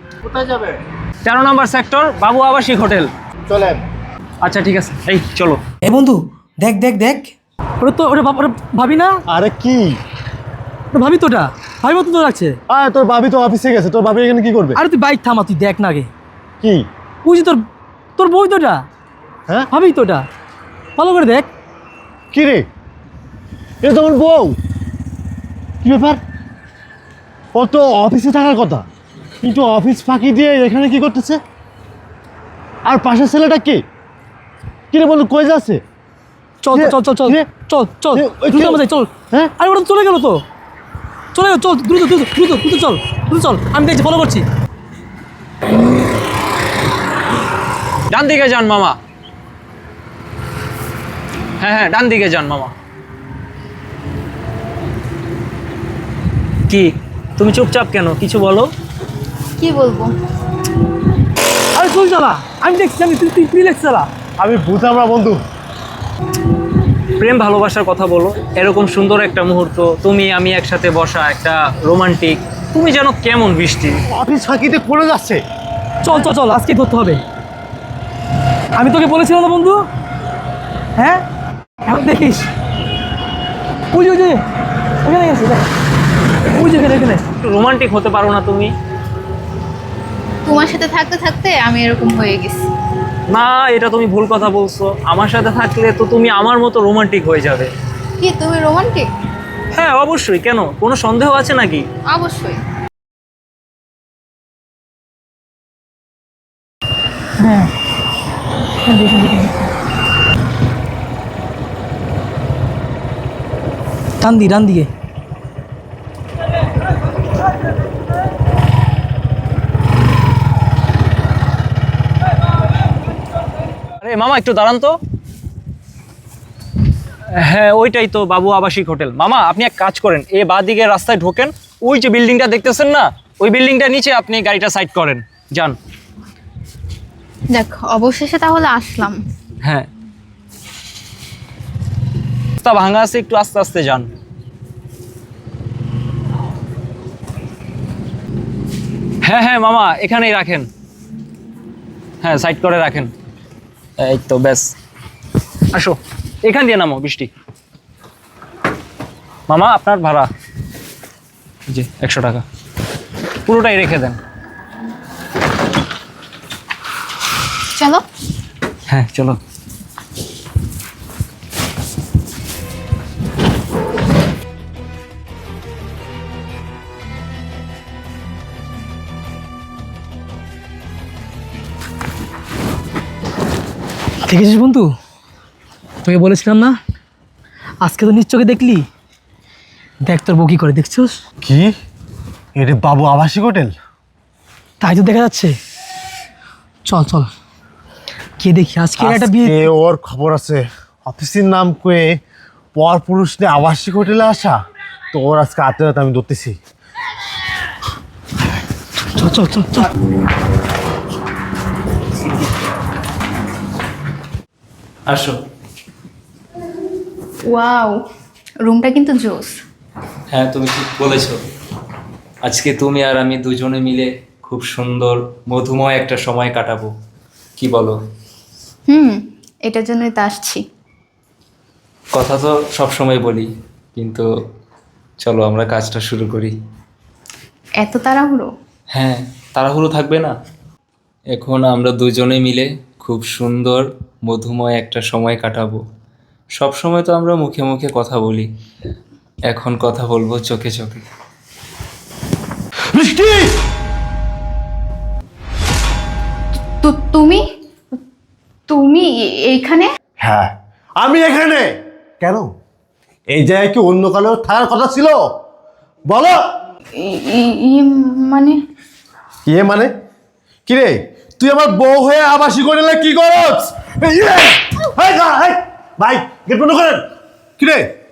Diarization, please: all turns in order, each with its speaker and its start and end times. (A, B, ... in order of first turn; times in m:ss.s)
0:00.2-0:00.8 A
0:01.2-0:03.1 B
0:03.5-0:03.8 A
0:04.4-0:05.6 B
0:05.9-0:09.2 C
0:09.3-0:09.9 A
0:10.9-0:12.6 C
0:12.7-0:14.8 A
0:14.8-0:16.1 C
0:17.2-0:17.6 C
0:18.2-0:18.8 C
0:19.7-0:20.2 C
0:21.0-0:21.5 C
0:22.3-0:22.7 A
0:23.8-0:24.6 A
0:25.8-0:26.2 A
0:27.5-0:28.9 A
0:29.4-0:31.4 A
0:32.8-0:33.8 A
0:34.9-0:35.8 A
0:36.6-0:40.4 C
0:36.7-0:37.5 A
0:38.1-0:39.5 A
0:41.3-0:44.4 C
0:48.1-0:49.0 B
0:51.6-0:52.7 B
0:56.7-0:58.7 B
0:59.6-1:00.1 D
1:01.7-1:04.1 C
1:04.4-1:05.4 A
1:07.2-1:14.0 B
1:14.1-1:15.4 A
1:16.0-1:17.2 C
1:18.8-1:19.8 C
1:21.0-1:21.2 C
1:21.8-1:22.5 C
1:23.9-1:24.4 C
1:25.0-1:25.6 C
1:26.5-1:27.2 C
1:27.4-1:28.7 B
1:30.4-1:32.7 D
1:33.3-1:37.7 B
1:38.2-1:39.1 D
1:39.7-1:41.9 B
1:42.1-1:42.6 D
1:47.4-1:47.7 C
1:48.8-1:49.6 C
1:54.2-1:54.9 C
2:04.0-2:05.0 B
2:07.3-2:15.8 B
2:17.5-2:19.2 D
2:22.6-2:24.1 B
2:29.2-2:30.7 B
2:32.2-2:33.1 B
2:34.0-2:34.7 B
2:35.7-2:37.3 B
2:39.5-2:40.3 B
2:41.7-2:42.4 B
2:43.4-2:44.2 B
2:47.7-2:48.0 D
2:48.9-2:49.4 B
3:04.2-3:04.9 C
3:06.0-3:06.8 C
3:07.8-3:08.8 C
3:10.0-3:11.1 C
3:11.4-3:11.7 A
3:12.6-3:13.7 A
3:14.8-3:15.5 C
3:16.8-3:17.3 C
3:18.4-3:19.6 C
3:19.0-3:22.2 A
3:22.8-3:24.6 A
3:25.1-3:26.6 A
3:29.1-3:29.9 C
3:35.1-3:35.4 B
3:37.4-3:38.0 D
3:38.6-3:39.6 D
3:40.3-3:41.4 B
3:42.4-3:46.9 B
3:47.6-3:48.0 B
3:48.9-3:50.6 D
3:52.1-3:54.2 B
3:55.2-3:56.5 B
3:57.8-3:58.5 D
3:58.9-4:00.3 B
4:01.3-4:05.8 B
4:06.6-4:08.5 B
4:09.5-4:11.0 B
4:12.9-4:13.6 A
4:16.8-4:17.4 D
4:18.7-4:19.9 D
4:20.2-4:21.7 A
4:22.2-4:22.5 A
4:23.3-4:25.2 A
4:26.1-4:26.4 A
4:27.0-4:28.6 D
4:29.4-4:29.9 A
4:30.6-4:37.0 A
4:37.6-4:37.9 A